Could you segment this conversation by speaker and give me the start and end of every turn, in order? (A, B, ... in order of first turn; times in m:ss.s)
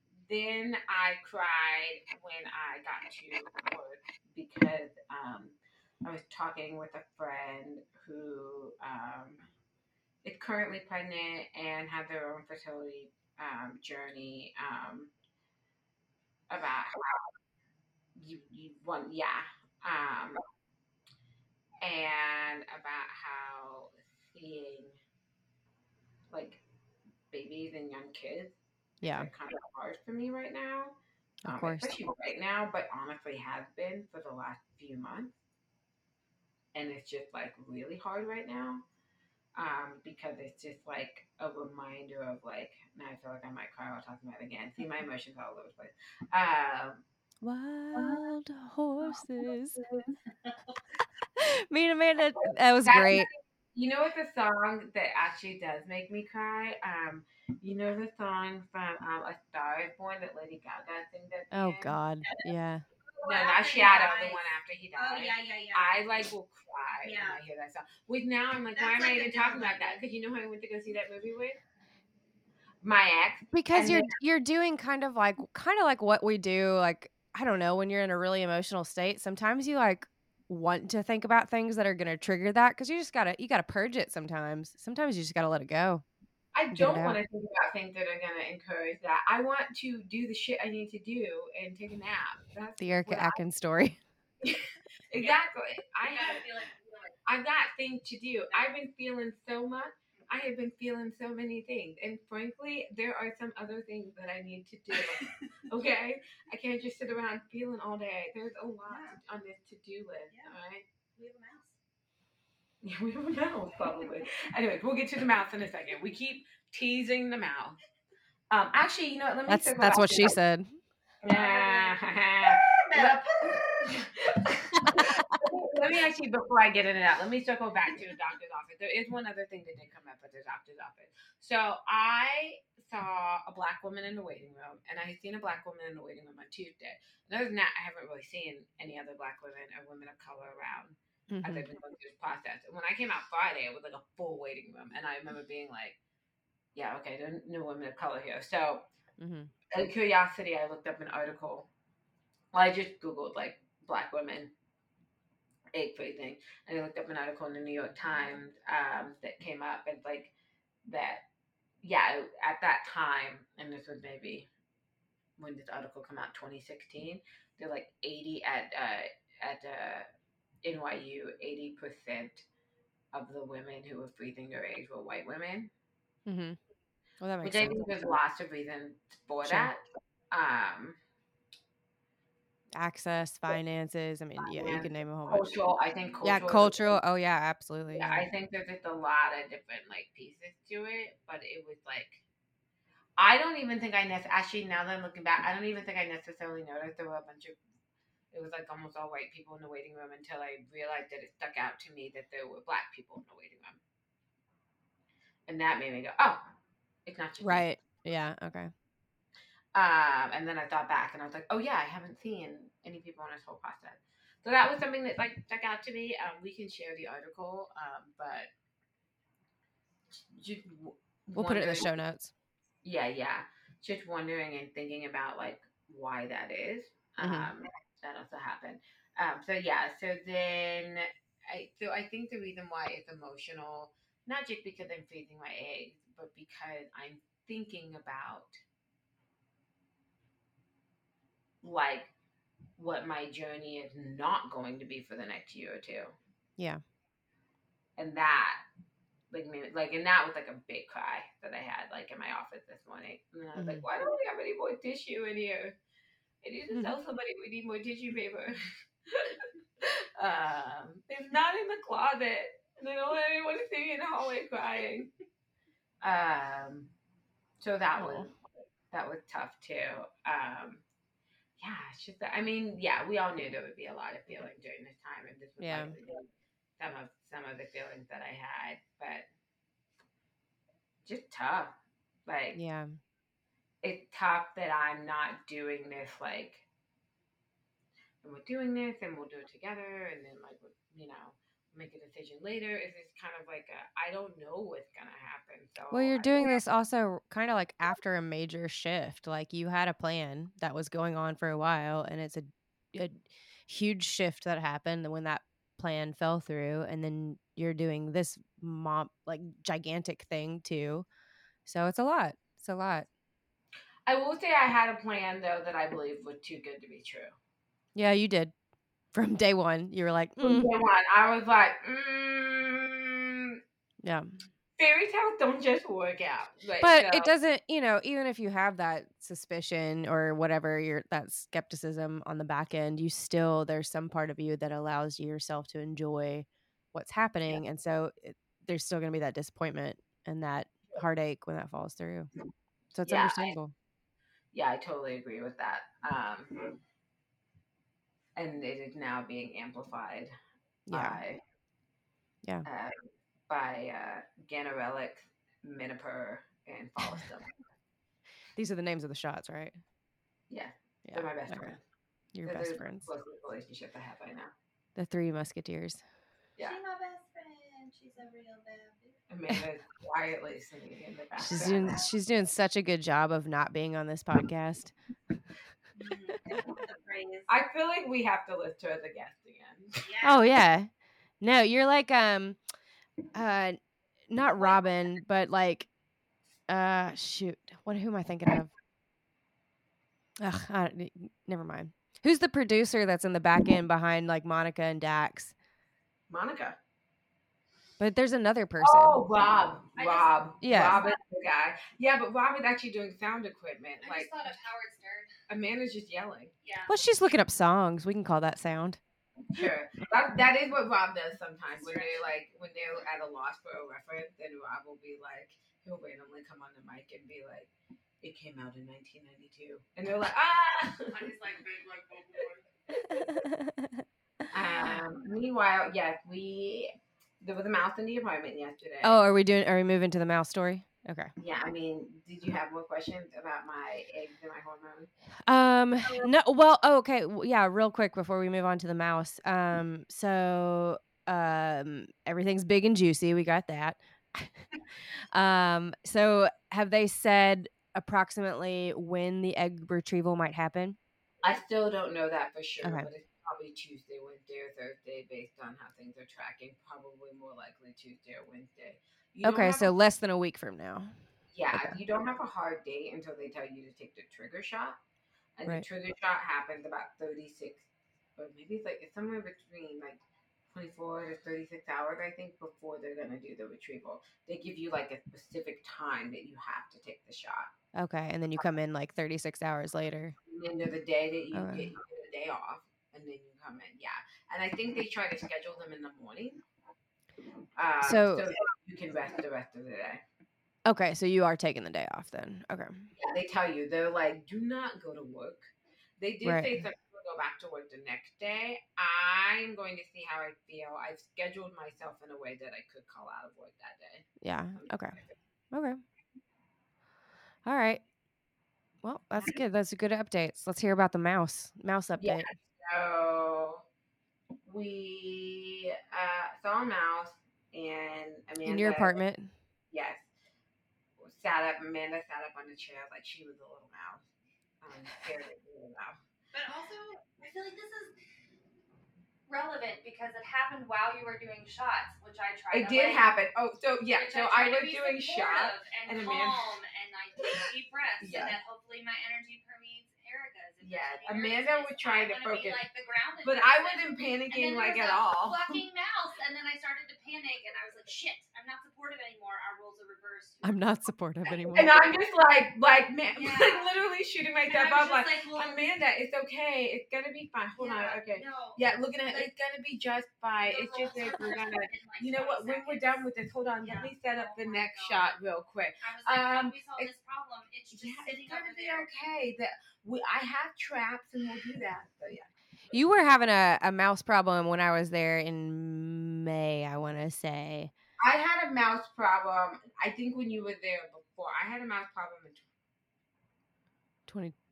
0:00.3-0:09.5 A
0:10.2-0:15.1 A
0:16.5-0:17.2 A
0:18.2-0:20.4 A
0:21.8-0:25.0 A
0:26.3-0:26.6 A
0:27.3-0:35.3 A
0:29.0-0:29.3 B
0:31.4-0:31.9 B
0:36.7-0:38.8 A
0:39.6-0:47.0 A
0:47.4-0:49.8 B
0:50.3-0:50.8 C
0:51.4-0:53.3 B
0:52.8-1:02.0 A
1:01.5-1:02.8 B
1:02.2-1:02.5 C
1:03.1-1:04.4 C
1:03.3-1:11.6 A
1:05.0-1:06.0 C
1:07.0-1:07.4 C
1:08.7-1:10.0 C
1:12.8-1:14.2 A
1:13.5-1:26.0 B
1:26.5-1:33.4 A
1:26.7-1:27.2 B
1:32.8-1:34.0 B
1:34.4-1:36.5 A
1:36.0-1:37.2 C
1:37.3-1:50.8 A
1:38.5-1:38.8 C
1:45.0-1:45.5 C
1:48.9-1:49.2 C
1:50.3-1:50.6 C
1:51.2-1:51.7 C
1:52.8-1:57.8 A
1:53.7-1:54.4 C
1:58.5-2:00.4 A
1:59.5-2:00.8 B
2:01.2-2:26.0 A
2:01.2-2:03.8 C
2:04.8-2:05.2 B
2:21.3-2:21.7 B
2:26.8-2:28.8 A
2:29.2-2:29.5 B
2:29.7-2:31.7 A
2:32.5-2:34.5 A
2:35.7-2:40.3 A
2:40.8-2:41.2 A
2:41.8-2:44.5 A
2:45.4-2:50.1 A
2:50.6-2:52.5 A
2:53.1-2:55.7 A
2:56.3-2:56.6 B
2:57.2-2:57.9 B
2:57.4-3:01.0 A
2:59.4-2:59.7 B
3:02.8-3:05.5 B
3:04.4-3:07.0 A
3:06.2-3:08.2 B
3:07.9-3:12.2 A
3:13.2-3:17.6 A
3:18.3-3:23.8 A
3:25.5-3:26.4 A
3:27.1-3:27.8 A
3:27.4-3:28.7 B
3:29.7-3:38.5 A
3:40.1-3:41.9 A
3:41.4-3:42.3 B
3:42.8-3:58.6 A
3:47.2-3:47.5 B
4:01.6-4:02.1 A
4:02.8-4:06.1 A
4:08.0-4:08.6 A
4:09.3-4:15.8 A
4:13.6-4:13.8 B
4:16.4-4:18.6 A
4:16.7-4:17.0 B
4:19.1-4:25.1 A
4:26.0-4:26.9 A
4:27.6-4:28.4 A
4:28.0-4:28.3 B
4:28.9-4:30.8 A
4:31.6-4:36.2 A
4:35.6-4:36.0 B
4:36.8-4:39.3 A
4:41.0-4:41.7 A
4:42.3-4:42.6 A
4:42.5-4:43.0 B
4:43.8-4:46.6 A
4:48.2-4:56.6 A
4:55.9-5:11.1 B
5:11.7-5:13.1 B
5:14.1-5:17.3 A
5:18.0-5:18.5 B
5:19.1-5:20.7 B
5:20.4-5:23.6 A
5:24.0-5:24.4 B
5:24.8-5:27.3 A
5:26.8-5:42.3 B
5:42.9-5:43.7 B
5:43.1-5:43.6 A
5:44.5-5:46.8 A
5:48.4-5:50.3 A
5:50.9-5:51.2 B
5:50.9-5:51.4 A
5:52.6-5:57.5 A
5:58.6-5:59.8 B
6:00.5-6:01.8 A
6:01.1-6:01.8 B
6:02.3-6:03.1 B
6:02.5-6:04.5 A
6:05.0-6:06.0 B
6:06.6-6:09.2 C
6:09.3-6:12.0 A
6:11.4-6:14.9 B
6:11.5-6:12.0 C
6:16.0-6:17.5 C
6:17.5-6:20.0 A
6:20.0-6:20.4 C
6:20.2-6:20.9 B
6:21.4-6:22.6 B
6:23.3-6:25.9 B
6:26.7-6:28.7 B
6:30.4-6:35.5 B
6:36.3-6:36.8 A
6:38.0-6:39.2 B
6:38.8-6:44.6 A
6:40.0-6:41.2 C
6:40.6-6:41.0 B
6:44.0-6:45.3 C
6:45.5-6:46.5 A
6:46.6-6:47.0 C
6:46.9-6:49.0 B
6:49.5-6:57.7 A
6:51.8-6:52.2 C
6:58.2-7:01.3 A
7:01.1-7:03.1 C
7:03.1-7:04.0 B
7:04.5-7:09.2 A
7:09.0-7:11.3 B
7:11.4-7:15.1 A
7:15.5-7:24.6 B
7:25.3-7:31.0 B
7:31.4-7:39.9 A
7:32.8-7:33.1 B
7:39.4-7:41.2 B
7:41.5-7:45.0 A
7:45.6-7:47.9 A
7:48.4-7:57.7 A
7:58.0-8:00.4 B
8:00.4-8:06.6 A
8:01.5-8:01.9 B
8:07.8-8:10.2 A
8:08.0-8:08.5 B
8:10.9-8:13.1 B
8:13.2-8:25.4 A
8:16.4-8:16.8 B
8:24.4-8:25.2 B
8:25.7-8:26.0 B
8:27.7-8:28.0 B
8:29.0-8:32.5 B
8:32.2-8:33.8 A
8:34.7-8:39.2 A
8:38.6-8:39.5 B
8:39.9-8:40.3 A
8:41.2-8:44.2 A
8:44.8-8:46.2 A
8:46.5-8:48.1 C
8:49.5-8:53.2 C
8:52.7-8:56.7 A
8:54.2-9:12.1 C
8:58.2-8:58.6 A
9:00.8-9:02.8 A
9:03.4-9:05.8 A
9:10.6-9:12.0 B
9:11.7-9:27.1 A
9:13.4-9:13.9 C
9:14.7-9:15.8 C
9:17.8-9:19.5 C
9:20.7-9:23.2 C
9:23.8-9:25.4 C
9:26.0-9:29.1 C
9:27.9-9:32.9 A
9:32.9-9:37.9 B
9:38.2-9:42.6 A
9:44.3-9:44.6 B